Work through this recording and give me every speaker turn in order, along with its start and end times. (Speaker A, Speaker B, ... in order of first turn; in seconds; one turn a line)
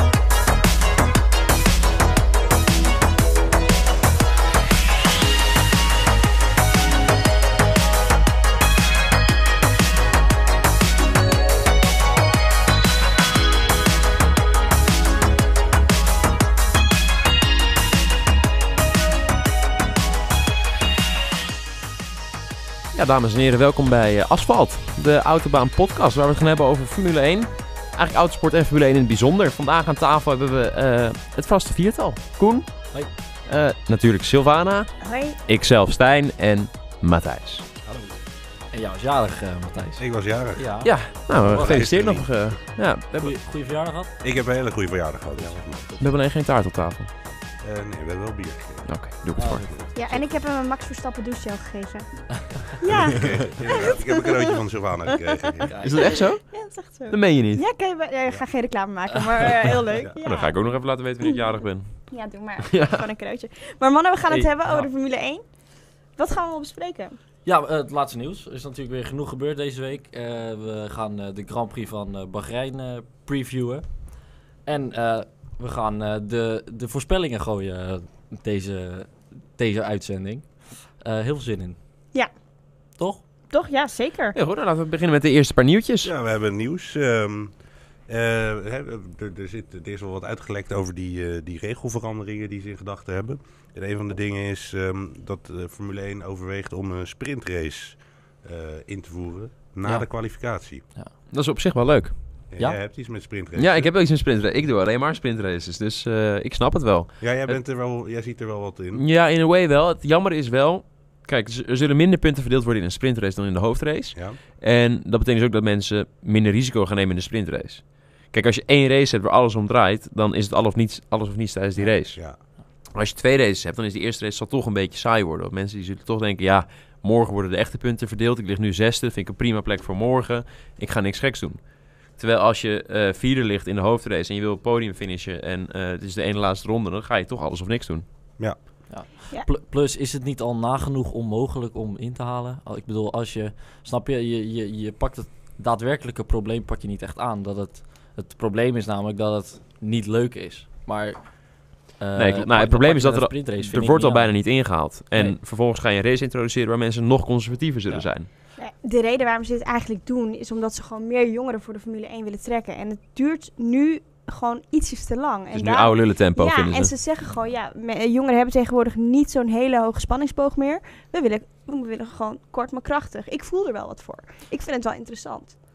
Speaker A: 22.9-37.6
Speaker B: 35.0-35.4
Speaker C: 37.9-38.1
Speaker C: 38.7-41.8
Speaker D: 40.0-42.5
Speaker A: 40.8-43.4
Speaker C: 43.2-44.1
Speaker D: 44.2-45.9
Speaker C: 45.4-46.0
Speaker A: 46.0-47.1
Speaker D: 47.6-48.9
Speaker A: 48.9-49.7
Speaker C: 49.3-50.3
Speaker B: 49.9-54.6
Speaker D: 53.1-55.9
Speaker B: 55.1-60.5
Speaker C: 55.7-56.1
Speaker A: 55.8-57.6
Speaker A: 60.2-62.1
Speaker B: 61.2-61.5
Speaker B: 62.1-65.4
Speaker A: 62.6-63.0
Speaker C: 64.3-64.9
Speaker B: 66.2-67.2
Speaker C: 67.4-74.1
Speaker C: 74.6-81.8
Speaker B: 83.5-84.3
Speaker A: 84.3-86.1
Speaker D: 86.0-87.5
Speaker D: 88.1-100.8
Speaker A: 101.3-102.2
Speaker D: 102.5-103.9
Speaker A: 103.5-107.6
Speaker D: 107.2-109.0
Speaker A: 108.9-122.2
Speaker D: 122.1-122.4
Speaker A: 122.9-138.0
Speaker C: 138.9-155.4
Speaker A: 152.2-158.3
Speaker B: 158.6-175.6
Speaker A: 165.5-166.9